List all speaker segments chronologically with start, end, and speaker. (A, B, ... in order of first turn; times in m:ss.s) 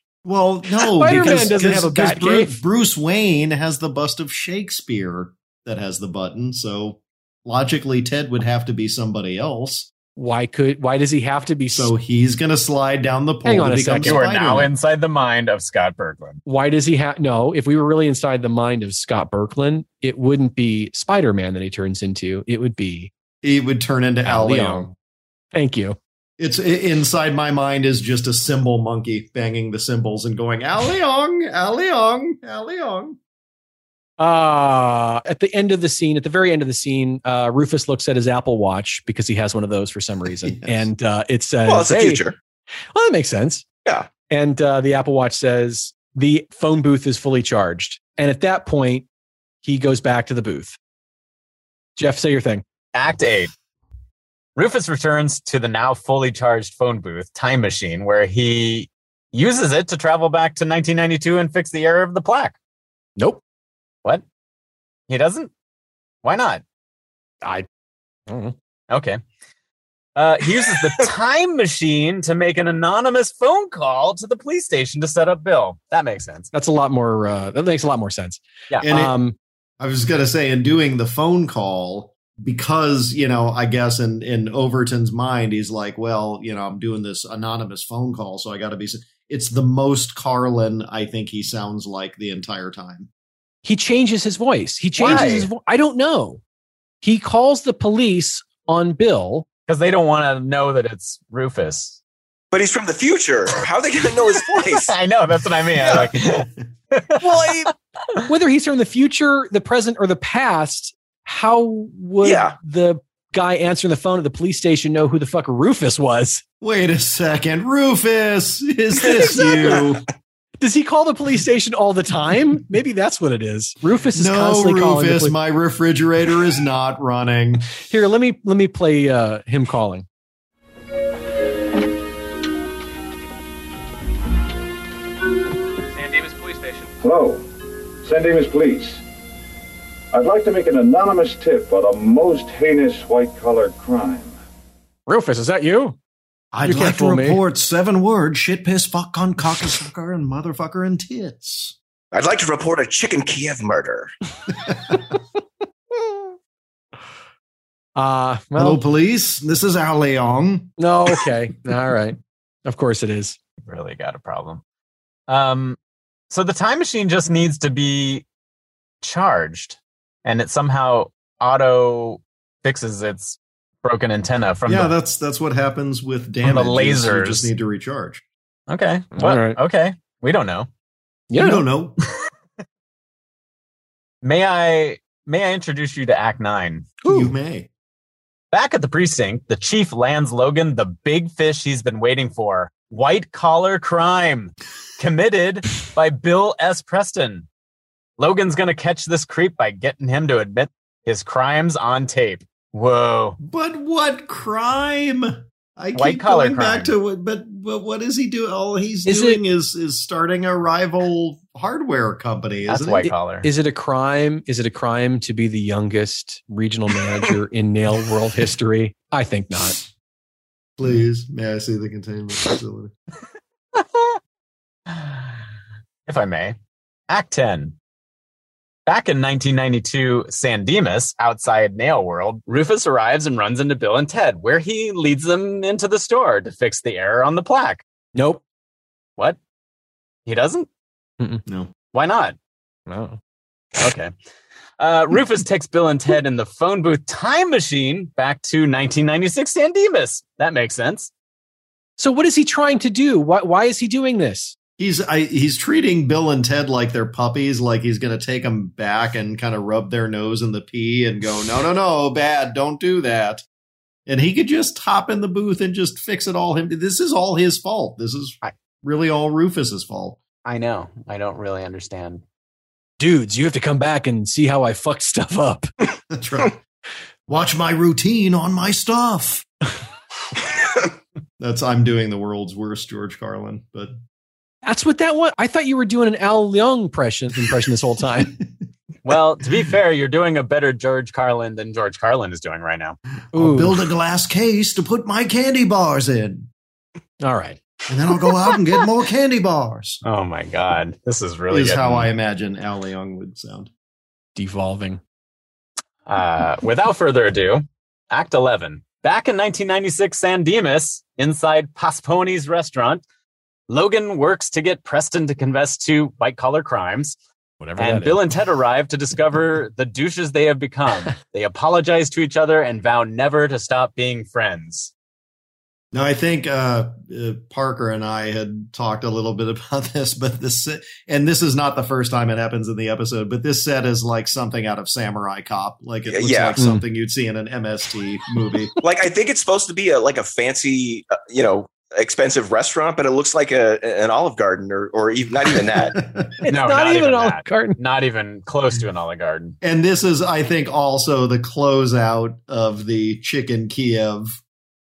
0:00.2-0:09.9 A
0:01.0-0:02.5 B
0:10.2-0:11.9 B
0:11.7-0:14.7 A
0:13.4-0:14.2 B
0:14.0-0:16.4 C
0:16.4-0:23.1 B
0:23.4-0:24.9 A
0:24.2-0:24.9 B
0:25.5-0:26.0 B
0:26.4-0:33.2 A
0:34.2-0:42.2 B
0:40.4-0:40.9 A
0:41.6-0:42.4 D
0:42.9-0:43.6 B
0:44.3-0:49.0 B
0:49.6-0:50.8 B
0:52.0-0:52.6 B
0:52.9-0:53.5 C
0:54.6-1:02.6 C
1:05.1-1:05.5 C
1:06.2-1:06.6 C
1:08.3-1:08.5 B
1:08.9-1:09.2 C
1:10.2-1:16.5 C
1:16.5-1:19.4 B
1:18.8-1:19.2 A
1:19.8-1:33.1 A
1:33.6-1:36.4 B
1:35.0-1:35.5 C
1:35.0-1:35.3 A
1:37.0-1:39.4 B
1:39.7-1:42.0 C
1:42.5-1:44.9 D
1:44.6-1:48.2 C
1:45.8-1:46.1 D
1:47.2-1:47.7 D
1:48.3-1:56.4 B
1:52.2-1:52.5 D
1:56.6-2:00.1 A
1:59.0-1:59.8 B
2:00.6-2:05.4 B
2:04.1-2:07.6 A
2:07.8-2:10.0 B
2:15.9-2:16.9 B
2:17.0-2:17.4 E
2:18.0-2:19.0 E
2:20.1-2:24.4 E
2:25.1-2:26.0 B
2:26.5-2:31.7 A
2:26.6-2:27.4 B
2:32.1-2:34.1 D
2:34.6-2:35.0 A
2:38.0-2:38.8 B
2:38.6-2:40.7 A
2:40.8-2:43.4 B
2:43.6-2:44.6 C
2:45.3-2:45.8 C
2:46.3-2:48.2 C
2:49.0-2:54.9 C
2:54.6-2:58.2 A
2:56.4-2:57.5 C
2:58.7-3:00.7 C
2:59.1-2:59.6 B
3:01.3-3:01.6 B
3:01.3-3:02.0 A
3:04.2-3:06.9 C
3:07.0-3:07.3 B
3:07.0-3:07.7 A
3:08.5-3:17.5 C
3:18.2-3:23.4 C
3:23.4-3:33.1 A
3:25.9-3:27.0 C
3:29.0-3:29.4 B
3:32.6-3:33.5 C
3:33.4-3:39.8 B
3:40.8-3:42.9 A
3:43.7-3:44.2 C
3:44.9-3:45.3 C
3:46.1-3:46.6 C
3:47.1-3:47.7 C
3:48.9-3:57.8 C
3:58.1-3:58.4 B
4:00.2-4:00.7 C
4:01.9-4:02.4 C
4:02.9-4:03.2 B
4:03.8-4:04.1 C
4:04.8-4:11.1 C
4:12.0-4:14.5 B
4:14.8-4:23.4 A
4:24.1-4:30.2 A
4:30.4-4:32.2 C
4:33.0-4:35.7 B
4:36.1-4:36.6 A
4:37.3-4:39.4 A
4:41.4-4:44.0 A
4:44.6-4:48.3 B
4:48.2-4:48.5 A
4:49.0-4:53.0 C
4:53.3-4:56.5 A
4:53.3-4:53.8 B
4:57.2-4:57.6 B
4:57.9-5:00.0 A
5:00.0-5:02.1 C
5:01.5-5:03.7 A
5:04.4-5:05.0 B
5:06.1-5:13.0 C
5:13.7-5:17.2 C
5:17.6-5:18.2 B
5:17.8-5:24.9 C
5:25.9-5:38.7 A
5:36.0-5:36.6 D
5:38.8-5:46.0 D
5:45.8-5:46.4 A
5:46.4-5:47.8 B
5:46.5-5:49.6 C
5:49.6-5:54.4 A